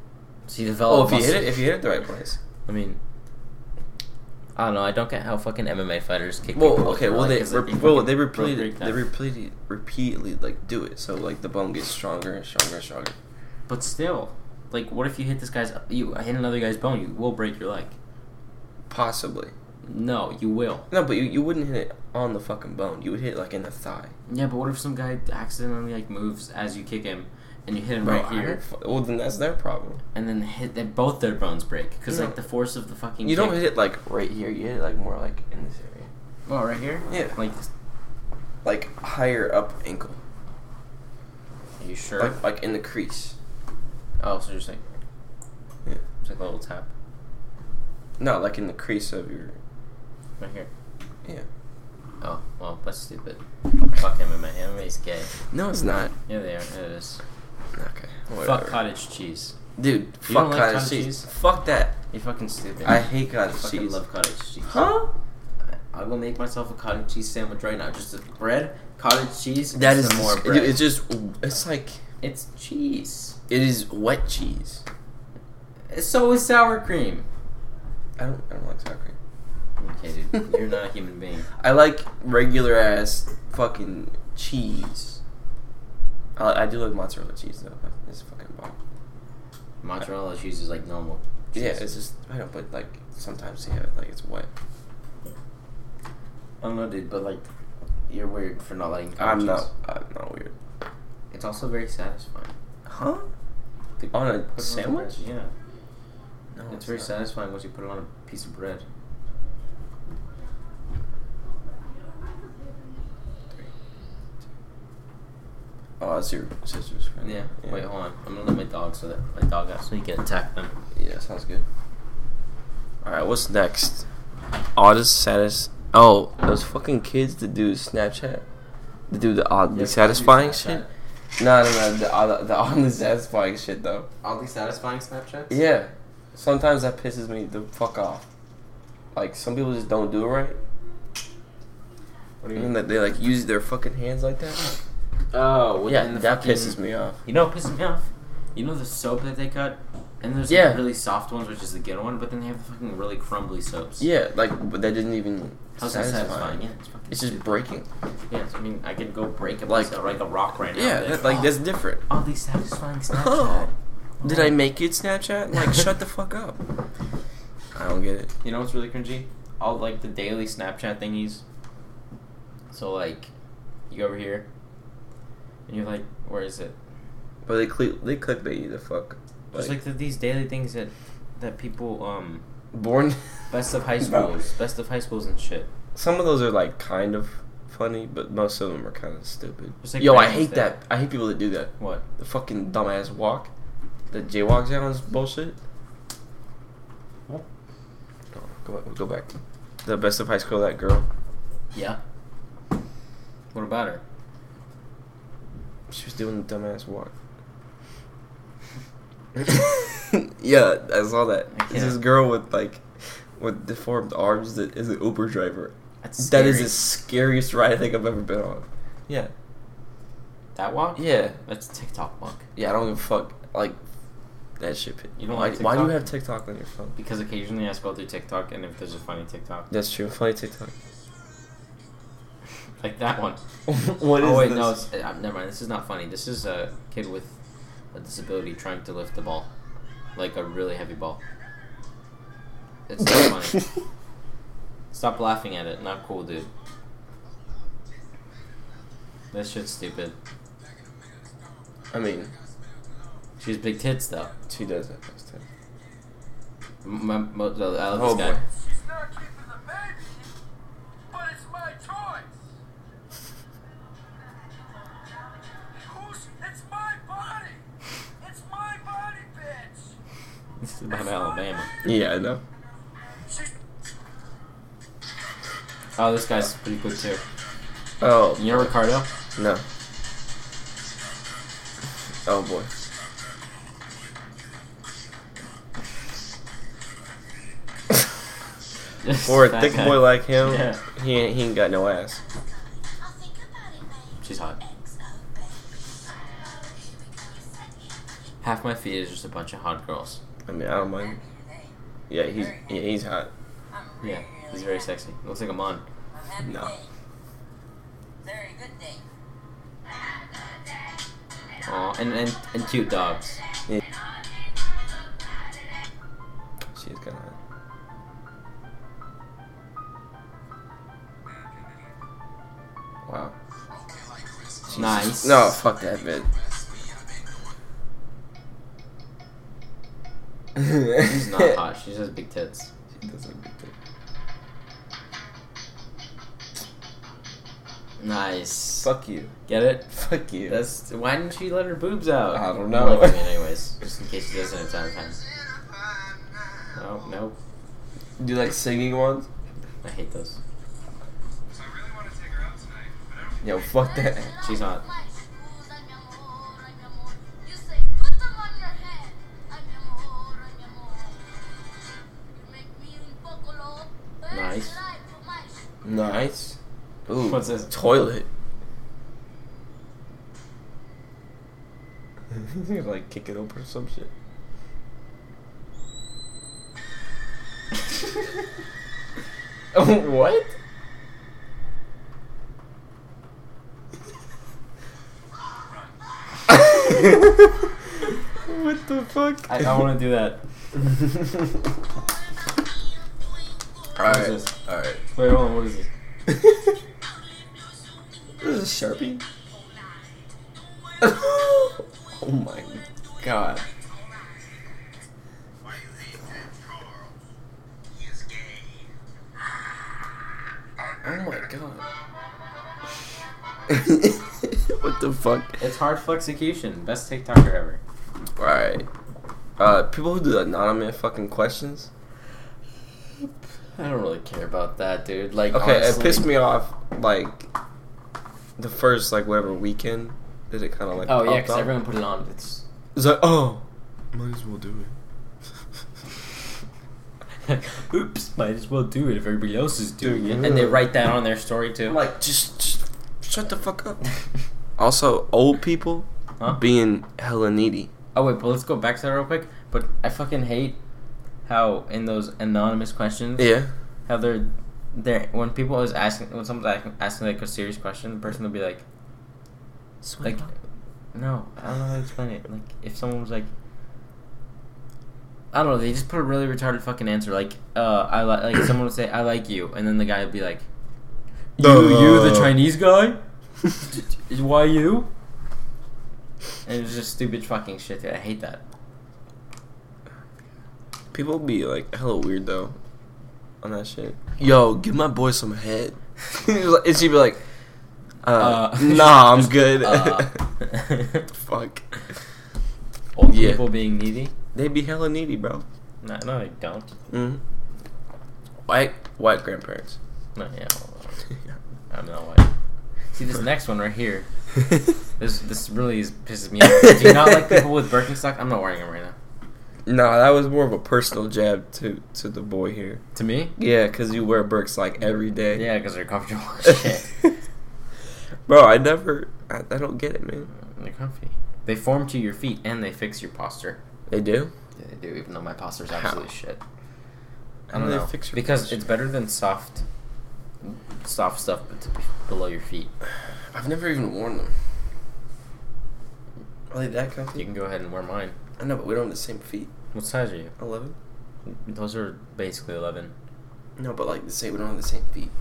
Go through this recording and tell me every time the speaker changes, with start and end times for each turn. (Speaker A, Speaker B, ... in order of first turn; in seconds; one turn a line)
Speaker A: 0.5-1.6
Speaker B: 0.9-2.4
Speaker A: 2.7-3.0
Speaker A: 4.6-9.0
Speaker B: 6.5-13.2
Speaker A: 13.7-17.9
Speaker B: 18.9-19.5
Speaker A: 19.9-20.9
Speaker B: 20.9-24.1
Speaker A: 24.3-28.6
Speaker B: 28.0-30.0
Speaker A: 30.1-33.6
Speaker B: 32.1-32.4
Speaker B: 33.2-36.1
Speaker A: 36.5-37.7
Speaker B: 37.1-37.4
Speaker B: 38.6-40.2
Speaker A: 41.8-42.4
Speaker B: 42.2-43.4
Speaker A: 44.2-44.8
Speaker A: 46.2-46.9
Speaker B: 48.2-49.6
Speaker A: 50.4-50.7
Speaker A: 52.2-53.4
Speaker A: 53.9-55.3
Speaker B: 55.5-56.1
Speaker A: 56.3-57.2
Speaker B: 57.7-58.8
Speaker A: 58.4-59.5
Speaker B: 59.8-62.0
Speaker A: 60.3-61.3
Speaker A: 62.1-64.9
Speaker B: 62.8-64.0
Speaker B: 64.7-65.1
Speaker A: 65.9-70.8
Speaker B: 69.7-72.0
Speaker A: 72.2-73.4
Speaker B: 73.5-74.8
Speaker A: 75.9-77.3
Speaker B: 78.2-79.2
Speaker A: 79.8-81.5
Speaker B: 81.6-85.2
Speaker B: 86.4-88.8
Speaker A: 89.8-91.9
Speaker B: 91.5-94.5
Speaker A: 96.6-97.5
Speaker A: 98.1-99.7
Speaker B: 99.2-100.5
Speaker A: 101.3-102.5
Speaker B: 102.9-103.3
Speaker A: 104.0-105.5
Speaker B: 104.1-105.1
Speaker B: 106.5-107.1
Speaker A: 106.7-108.8
Speaker B: 116.0-117.8
Speaker A: 117.2-120.7
Speaker B: 120.9-121.7
Speaker B: 123.0-124.1
Speaker B: 124.8-128.4
Speaker B: 129.1-130.8
Speaker A: 129.7-130.9
Speaker B: 131.4-134.1
Speaker A: 134.2-135.6
Speaker B: 135.5-138.3
Speaker B: 139.1-140.6
Speaker A: 142.4-142.7
Speaker B: 142.5-144.7
Speaker A: 145.3-154.1
Speaker B: 145.9-147.2
Speaker B: 150.5-150.8
Speaker B: 154.0-157.9
Speaker A: 155.8-157.5
Speaker A: 158.3-161.6
Speaker B: 159.7-160.1
Speaker B: 160.7-162.0
Speaker A: 162.1-164.6
Speaker B: 163.1-163.7
Speaker B: 164.2-166.6
Speaker B: 167.7-168.3
Speaker A: 168.4-171.4
Speaker A: 172.7-173.3
Speaker A: 173.9-174.5
Speaker A: 175.7-176.8
Speaker B: 177.5-179.7
Speaker A: 179.5-182.4
Speaker B: 182.7-183.2
Speaker A: 183.5-185.7
Speaker B: 184.0-184.3
Speaker B: 185.9-193.5
Speaker A: 189.8-190.7
Speaker A: 191.8-192.1
Speaker B: 194.1-195.6
Speaker B: 198.3-199.3
Speaker B: 199.8-201.1
Speaker A: 201.7-202.0
Speaker A: 203.5-204.0
Speaker B: 205.9-207.1
Speaker B: 209.3-212.8
Speaker A: 211.5-212.0
Speaker B: 213.4-219.3
Speaker A: 216.0-216.8
Speaker A: 220.6-222.5
Speaker B: 221.0-221.4
Speaker B: 222.6-223.8
Speaker B: 224.6-226.9
Speaker A: 225.2-226.1
Speaker A: 227.0-229.7
Speaker B: 229.7-230.7
Speaker A: 232.8-233.4
Speaker B: 233.7-234.8
Speaker A: 234.2-237.3
Speaker A: 237.9-239.5
Speaker A: 240.2-241.2
Speaker A: 242.9-243.7
Speaker A: 244.9-246.5
Speaker A: 249.3-250.2
Speaker B: 251.9-252.3
Speaker A: 253.4-254.3
Speaker B: 254.5-255.4
Speaker A: 256.8-258.4
Speaker B: 257.9-258.4
Speaker C: 258.7-260.3
Speaker C: 261.1-262.3
Speaker C: 265.9-267.6
Speaker C: 268.3-269.8
Speaker A: 270.6-271.7
Speaker B: 271.8-272.4
Speaker A: 276.0-277.2
Speaker B: 278.0-278.8
Speaker A: 278.4-279.1
Speaker B: 279.3-279.6
Speaker B: 282.3-282.7
Speaker A: 289.0-290.8
Speaker B: 289.2-292.2
Speaker C: 292.8-298.1
Speaker A: 294.2-294.6
Speaker A: 298.4-300.2
Speaker B: 300.5-301.2
Speaker C: 300.8-301.7
Speaker B: 302.1-303.3
Speaker C: 302.3-302.8
Speaker C: 303.7-304.9
Speaker A: 304.0-305.8
Speaker C: 306.1-306.9
Speaker B: 306.4-306.7
Speaker C: 308.2-309.1
Speaker C: 309.9-311.0
Speaker A: 311.6-313.4
Speaker C: 314.1-315.5
Speaker B: 316.8-317.4
Speaker B: 323.1-323.3
Speaker B: 324.7-326.3
Speaker A: 324.7-325.5
Speaker B: 330.6-331.1
Speaker A: 331.0-332.7
Speaker B: 333.0-333.7
Speaker A: 338.0-338.9
Speaker B: 338.8-339.3
Speaker A: 339.5-339.9
Speaker B: 339.9-340.6
Speaker A: 340.5-345.2
Speaker B: 342.3-343.3
Speaker A: 346.8-347.4
Speaker B: 348.2-349.3
Speaker A: 349.8-350.4
Speaker B: 353.4-354.4
Speaker C: 353.8-361.6
Speaker A: 354.4-354.8
Speaker C: 362.3-365.7
Speaker A: 364.3-364.8
Speaker B: 365.8-368.3
Speaker A: 367.2-367.7
Speaker B: 372.3-374.1
Speaker B: 379.8-380.5
Speaker B: 386.5-387.4
Speaker B: 388.4-389.8
Speaker A: 389.5-390.4
Speaker B: 393.9-395.0
Speaker A: 394.0-394.5
Speaker A: 395.1-395.9
Speaker B: 396.3-396.7
Speaker C: 397.5-397.8
Speaker B: 398.4-399.2
Speaker B: 401.0-403.6
Speaker B: 411.0-411.8
Speaker B: 413.7-415.6
Speaker A: 415.6-417.8
Speaker B: 418.4-418.9
Speaker B: 419.6-421.9
Speaker A: 423.8-426.3
Speaker B: 425.5-427.5
Speaker B: 428.6-431.7
Speaker A: 431.1-432.6
Speaker B: 432.9-434.9
Speaker A: 437.4-442.0
Speaker B: 440.0-440.8
Speaker B: 441.9-444.0
Speaker B: 444.8-447.9
Speaker A: 448.1-450.8
Speaker A: 451.5-453.5
Speaker B: 453.4-453.7
Speaker A: 454.1-458.8
Speaker B: 460.0-460.5
Speaker A: 460.2-460.5
Speaker A: 461.1-463.5
Speaker A: 465.5-470.6
Speaker B: 471.6-472.6
Speaker A: 471.6-473.2
Speaker A: 473.9-475.1
Speaker A: 476.6-478.6
Speaker B: 481.1-482.8
Speaker B: 483.6-487.4
Speaker B: 488.2-490.4
Speaker A: 488.4-491.2
Speaker B: 491.3-491.9
Speaker A: 493.1-494.3
Speaker B: 493.3-493.7
Speaker B: 494.5-495.6
Speaker A: 496.0-496.9
Speaker B: 497.1-497.4
Speaker B: 498.7-500.0
Speaker A: 500.4-501.2
Speaker A: 501.9-502.5
Speaker A: 503.1-504.3
Speaker A: 505.2-509.2
Speaker B: 506.8-507.3
Speaker B: 509.9-513.0
Speaker A: 513.1-513.5
Speaker B: 513.6-515.7
Speaker A: 515.5-517.1
Speaker B: 518.5-520.5
Speaker A: 520.6-523.8
Speaker B: 524.1-524.5
Speaker A: 524.8-526.6
Speaker B: 527.7-528.8
Speaker A: 527.7-529.8
Speaker A: 530.6-532.9
Speaker B: 533.5-534.5
Speaker B: 536.7-537.5
Speaker A: 537.4-538.4
Speaker B: 538.6-539.7
Speaker A: 539.9-540.5
Speaker B: 540.6-541.0
Speaker A: 541.5-543.1
Speaker B: 543.8-545.3